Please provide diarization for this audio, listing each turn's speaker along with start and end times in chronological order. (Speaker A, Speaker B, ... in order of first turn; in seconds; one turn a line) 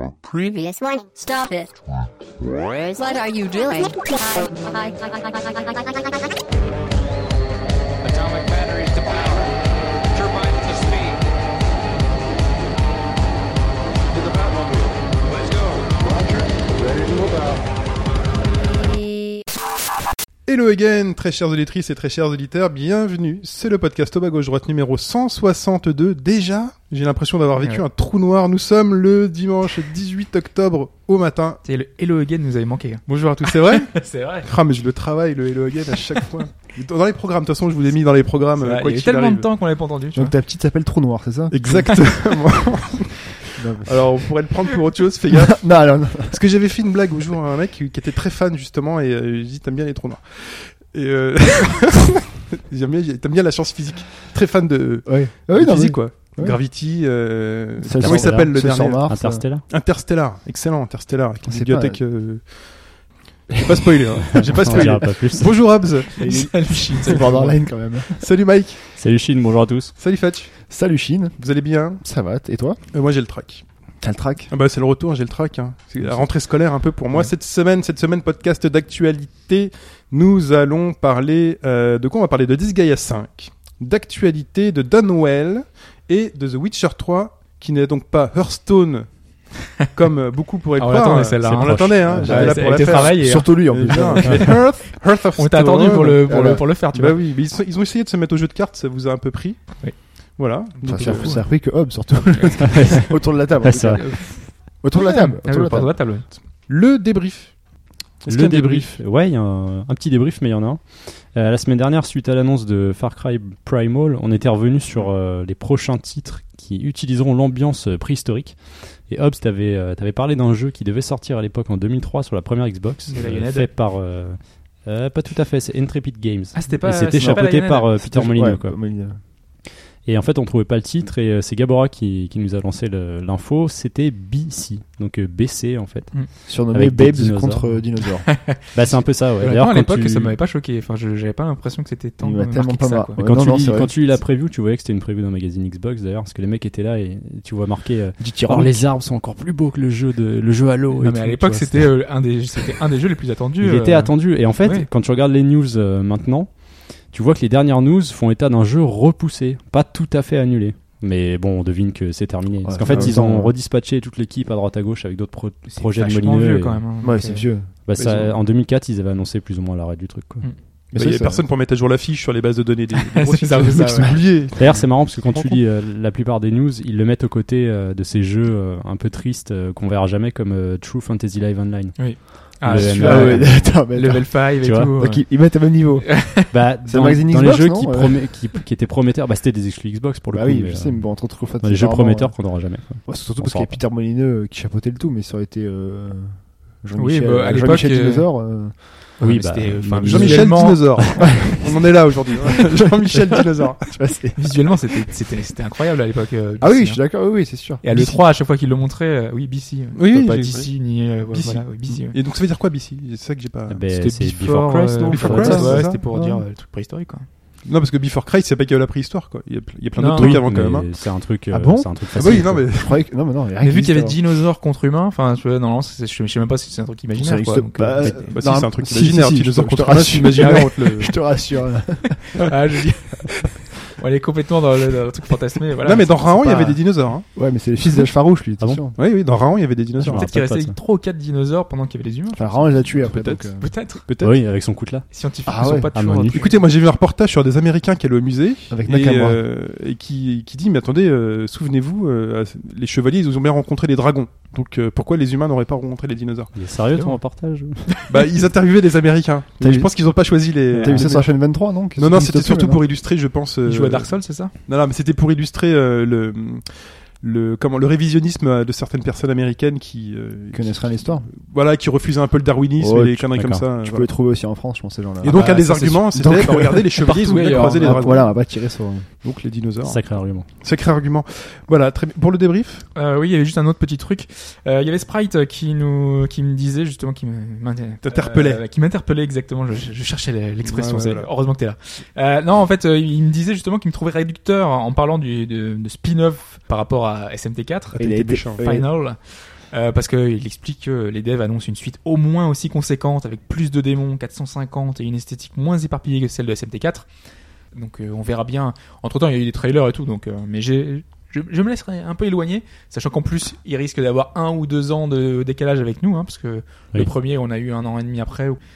Speaker A: 0.2-1.8
Speaker A: 2.8-6.3
Speaker B: 8.0-11.3
Speaker B: 14.1-17.6
Speaker A: 18.5-19.4
Speaker C: 20.4-31.6
Speaker D: 31.6-34.5
Speaker C: 33.0-39.5
Speaker D: 38.6-40.3
Speaker E: 40.1-41.8
Speaker C: 41.5-45.8
Speaker E: 43.5-44.2
Speaker E: 45.3-46.4
Speaker C: 46.3-59.1
Speaker E: 55.0-56.6
Speaker E: 57.8-59.5
Speaker F: 58.0-59.7
Speaker C: 59.6-63.0
Speaker E: 61.4-62.0
Speaker E: 63.5-64.0
Speaker C: 63.6-66.2
Speaker F: 64.3-65.8
Speaker E: 64.6-65.0
Speaker D: 66.2-67.5
Speaker E: 66.2-68.3
Speaker C: 68.2-68.9
Speaker F: 69.0-69.9
Speaker C: 70.0-70.6
Speaker E: 70.7-71.4
Speaker C: 71.4-72.0
Speaker E: 72.0-72.8
Speaker C: 72.9-73.6
Speaker E: 74.0-74.5
Speaker C: 74.5-101.4
Speaker E: 76.0-76.3
Speaker D: 90.8-94.5
Speaker E: 92.1-94.6
Speaker D: 95.4-97.2
Speaker E: 96.3-96.6
Speaker D: 99.8-101.5
Speaker E: 100.8-106.0
Speaker D: 102.4-103.1
Speaker F: 103.6-104.0
Speaker D: 104.0-106.2
Speaker C: 106.3-107.6
Speaker C: 108.2-109.0
Speaker F: 108.3-128.8
Speaker D: 123.1-123.7
Speaker D: 126.5-128.3
Speaker E: 127.1-129.2
Speaker F: 130.0-137.8
Speaker E: 136.5-138.3
Speaker D: 138.3-143.2
Speaker F: 138.7-140.3
Speaker E: 142.2-144.2
Speaker F: 143.2-151.9
Speaker E: 148.2-148.8
Speaker D: 151.0-154.9
Speaker F: 153.6-166.8
Speaker E: 162.6-163.5
Speaker D: 165.7-167.4
Speaker E: 167.0-167.7
Speaker F: 167.8-170.4
Speaker C: 168.0-168.3
Speaker E: 170.9-171.4
Speaker C: 170.9-175.6
Speaker D: 173.1-174.1
Speaker E: 173.8-174.9
Speaker F: 174.6-183.8
Speaker D: 181.9-186.4
Speaker E: 182.7-188.4
Speaker F: 184.6-184.9
Speaker F: 186.5-193.8
Speaker E: 190.3-199.0
Speaker D: 196.9-198.3
Speaker D: 199.2-201.2
Speaker F: 199.2-201.0
Speaker C: 200.0-203.9
Speaker E: 201.4-202.7
Speaker E: 203.9-204.4
Speaker D: 204.3-207.0
Speaker E: 206.6-208.2
Speaker D: 207.8-212.2
Speaker C: 209.9-213.8
Speaker F: 213.7-215.9
Speaker D: 213.9-217.2
Speaker C: 215.1-216.0
Speaker E: 216.0-216.4
Speaker C: 217.6-220.9
Speaker D: 220.0-220.4
Speaker F: 220.2-222.6
Speaker E: 221.5-224.2
Speaker C: 222.1-223.0
Speaker D: 223.6-228.3
Speaker E: 227.2-232.3
Speaker C: 228.3-231.1
Speaker D: 230.4-230.7
Speaker D: 232.4-233.4
Speaker D: 234.0-236.8
Speaker C: 235.8-237.3
Speaker E: 237.3-238.9
Speaker C: 238.9-240.2
Speaker F: 240.0-240.8
Speaker D: 240.1-243.1
Speaker E: 242.3-243.7
Speaker C: 243.0-244.4
Speaker D: 243.6-244.0
Speaker F: 244.2-245.0
Speaker D: 245.1-246.6
Speaker E: 245.4-246.2
Speaker F: 245.9-246.4
Speaker C: 246.3-256.5
Speaker E: 248.7-249.4
Speaker F: 256.5-257.9
Speaker D: 256.9-257.2
Speaker C: 258.1-264.1
Speaker E: 259.6-262.8
Speaker D: 263.6-264.5
Speaker C: 264.6-274.1
Speaker E: 270.5-271.3
Speaker E: 272.8-277.0
Speaker F: 273.4-273.6
Speaker C: 275.2-278.3
Speaker D: 275.2-278.2
Speaker E: 277.6-279.2
Speaker C: 279.2-282.9
Speaker F: 279.8-280.5
Speaker D: 282.9-307.1
Speaker C: 288.0-288.6
Speaker C: 290.6-291.3
Speaker E: 298.0-298.9
Speaker C: 298.0-298.6
Speaker D: 307.8-318.6